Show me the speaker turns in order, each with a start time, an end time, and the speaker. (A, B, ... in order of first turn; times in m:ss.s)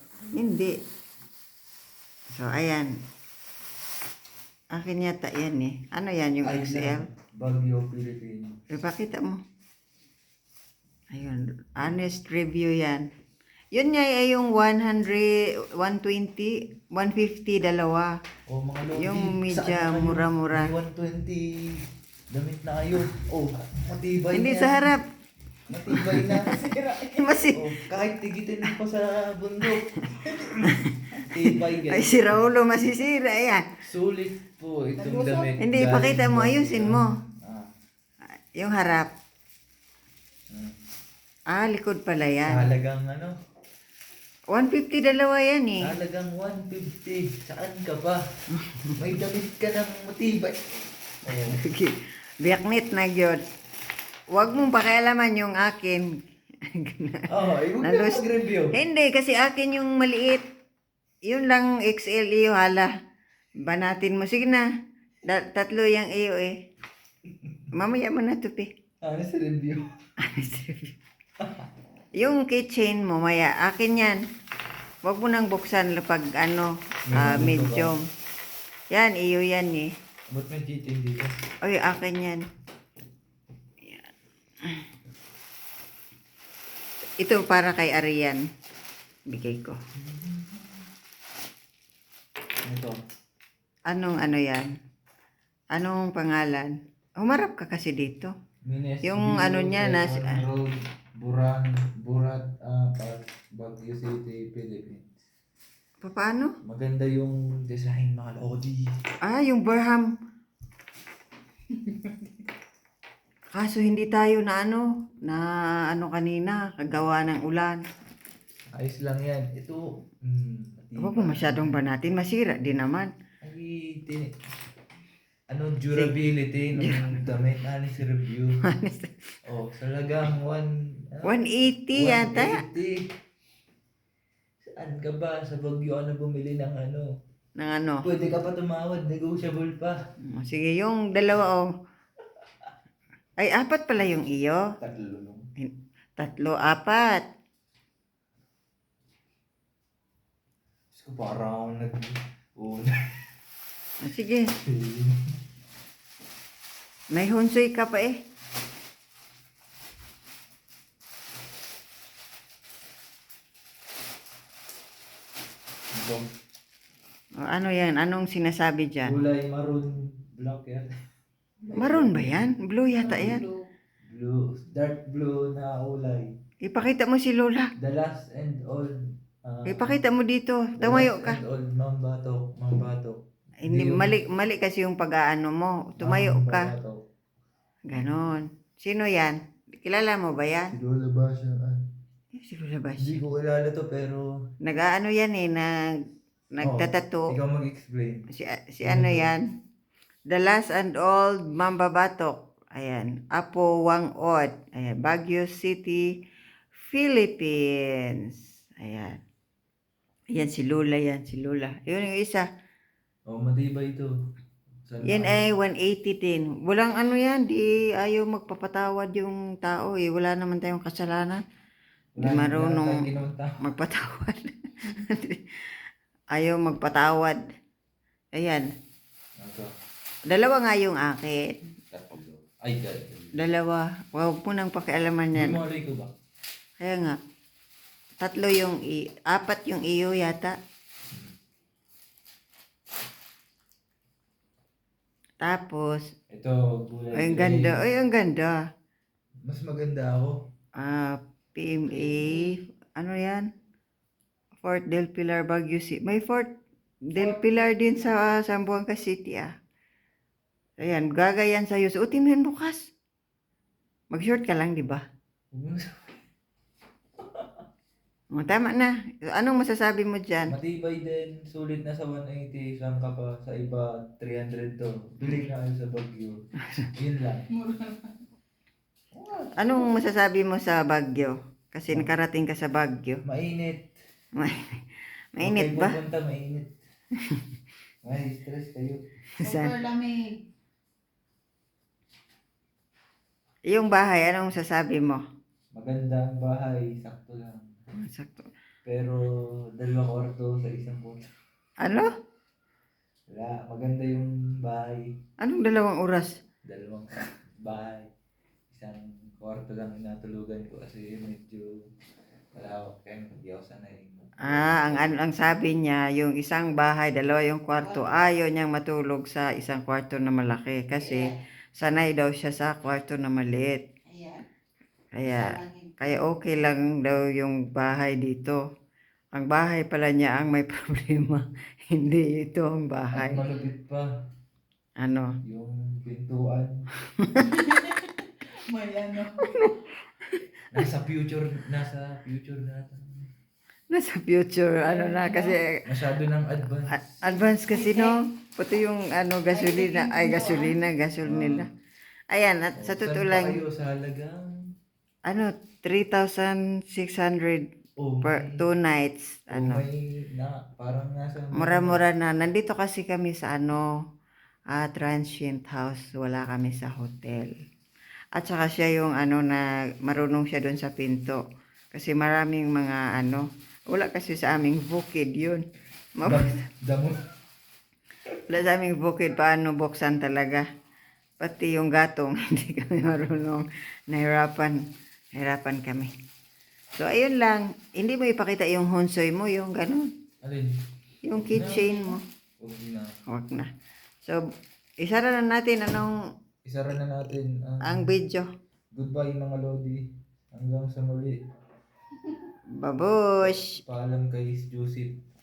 0:00.3-0:00.8 A
0:02.3-0:02.9 A
0:04.7-0:07.0 A
0:06.4-0:08.6 B
0:08.7-0:09.4 A
0:11.1-0:13.0 A
0:13.7-0:18.1 A
0:18.5-0:24.9 B
0:19.0-0:20.7 A
0:24.3-0:25.0 A
0:25.7-0:32.4 B
0:25.9-0:26.5 A
0:27.2-0:27.6 A
0:31.9-0:33.6 A
0:33.8-0:37.7 B
0:35.6-0:37.1 A
0:38.6-0:39.1 A
0:41.5-0:42.6 A
0:42.4-0:43.4 B
0:44.5-0:45.9 A
0:45.8-0:48.2 B
0:48.6-0:48.9 A
0:49.0-0:51.6 B
0:51.6-0:53.4 A
0:54.3-0:56.0 A
0:56.6-0:57.3 A
0:57.3-0:58.8 B
0:57.8-1:00.4 A
1:01.3-1:02.9 A
1:03.6-1:04.6 A
1:05.2-1:06.5 A
1:07.3-1:07.6 B
1:07.7-1:08.7 A
1:09.0-1:09.9 B
1:10.2-1:10.9 A
1:12.2-1:14.2 A
1:15.0-1:18.0 A
1:17.1-1:17.9 B
1:18.9-1:19.9 A
1:20.3-1:21.3 B
1:21.6-1:22.4 A
1:27.2-1:28.4 A
1:29.3-1:29.8 A
1:29.9-1:30.8 B
1:32.6-1:33.0 B
1:33.9-1:34.7 A
1:35.7-1:38.3 A
1:38.6-1:45.1 B
1:39.0-1:40.4 A
1:46.0-1:46.5 A
1:46.6-1:48.9 B
1:49.2-1:50.1 A
1:53.6-1:57.8 A
1:58.7-2:01.8 B
2:01.0-2:03.1 A
2:03.4-2:04.3 B
2:05.5-2:08.6 B
2:06.8-2:07.3 A
2:08.7-2:09.2 A
2:09.4-2:11.3 B
2:11.2-2:12.6 A
2:11.9-2:13.0 B
2:14.7-2:17.1 B
2:17.6-2:18.0 A
2:18.0-2:20.0 B
2:20.3-2:21.7 A
2:23.4-2:24.7 A
2:24.8-2:25.5 B
2:25.6-2:27.2 A
2:30.9-2:32.9 B
2:34.0-2:34.5 A
2:34.6-2:35.2 B
2:37.1-2:38.2 A
2:45.9-2:46.3 B
2:47.4-2:49.1 A
2:49.0-2:50.9 B
2:51.6-2:52.4 B
2:51.8-2:53.4 A
2:53.1-2:53.4 B
2:54.1-2:56.3 B
2:56.6-2:57.7 A
2:57.8-3:00.0 B
2:59.7-3:01.4 A
3:00.8-3:04.1 B
3:03.6-3:06.7 A
3:06.0-3:07.0 B
3:07.9-3:10.7 A
3:10.7-3:11.8 B
3:12.4-3:13.2 A
3:13.0-3:14.3 B
3:14.6-3:15.7 A
3:16.6-3:17.3 A
3:16.6-3:18.3 B
3:18.3-3:19.4 A
3:18.8-3:19.3 B
3:20.3-3:26.1 A
3:26.7-3:29.2 A
3:30.3-3:32.4 A
3:33.3-3:34.1 B
3:34.8-3:35.5 B
3:35.0-3:41.4 A
3:42.2-3:43.7 B
3:42.2-3:43.1 A
3:43.6-3:45.8 A
3:46.3-3:47.4 A
3:48.3-3:48.7 A
3:49.4-3:49.7 B
3:50.3-3:51.6 A
3:51.9-3:53.4 B
3:53.4-3:55.6 A
3:55.3-3:56.1 B
3:56.8-3:57.2 A
3:58.2-4:00.5 A
4:05.4-4:06.1 A
4:06.3-4:07.8 B
4:07.2-4:08.6 A
4:09.4-4:10.4 B
4:10.8-4:13.4 A
4:11.9-4:12.6 B
4:14.6-4:16.5 A
4:17.1-4:19.5 A
4:20.8-4:22.9 A
4:24.1-4:25.0 A
4:25.5-4:26.2 B
4:27.2-4:27.6 B
4:28.3-4:30.5 A
4:30.5-4:37.5 B
4:39.1-4:39.7 B
4:39.6-4:43.2 A
4:43.2-4:43.9 B
4:44.4-4:44.8 A
4:45.4-4:46.0 A
4:45.4-4:46.7 B
4:47.2-4:47.4 A
4:48.0-4:49.0 B
4:49.4-4:49.8 A
4:49.5-4:50.4 C
4:53.7-4:55.2 A
4:55.7-4:57.7 B
4:58.0-4:58.5 A
4:58.8-5:01.3 B
5:01.8-5:02.1 A
5:03.3-5:05.1 B
5:05.4-5:06.4 A
5:06.6-5:08.1 B
5:08.7-5:11.8 B
5:12.5-5:15.6 B
5:14.4-5:23.9 A
5:24.1-5:24.4 C
5:25.2-5:28.6 A
5:25.5-5:25.9 C
5:29.3-5:33.4 A
5:33.1-5:34.1 B
5:35.0-5:35.3 A
5:35.4-5:36.8 B
5:37.2-5:37.5 A
5:37.5-5:39.5 C
5:39.4-5:40.4 A
5:40.7-5:43.3 B
5:43.9-5:45.8 A
5:45.0-5:45.5 C
5:45.8-5:47.2 B
5:47.2-5:51.7 A
5:47.7-5:48.1 C
5:49.6-5:50.6 C
5:51.2-5:51.6 B
5:52.3-5:53.6 A
5:52.8-5:54.4 B
5:55.3-5:57.6 A
5:58.0-5:58.6 B
5:58.2-5:59.8 A
5:59.5-6:02.0 B
6:01.6-6:03.9 A
6:04.7-6:07.5 A
6:08.3-6:11.4 A
6:11.9-6:15.6 A
6:16.2-6:16.6 A
6:16.2-6:17.2 B
6:18.5-6:20.6 A
6:21.4-6:24.8 A
6:25.3-6:26.1 A
6:27.0-6:30.1 A
6:30.4-6:30.7 B
6:31.2-6:32.2 A
6:31.3-6:32.0 B
6:32.6-6:33.1 B
6:33.3-6:33.7 A
6:35.0-6:36.2 A
6:36.6-6:38.1 B
6:37.8-6:38.5 A
6:38.9-6:41.4 B
6:42.8-6:43.7 A
6:43.4-6:45.2 B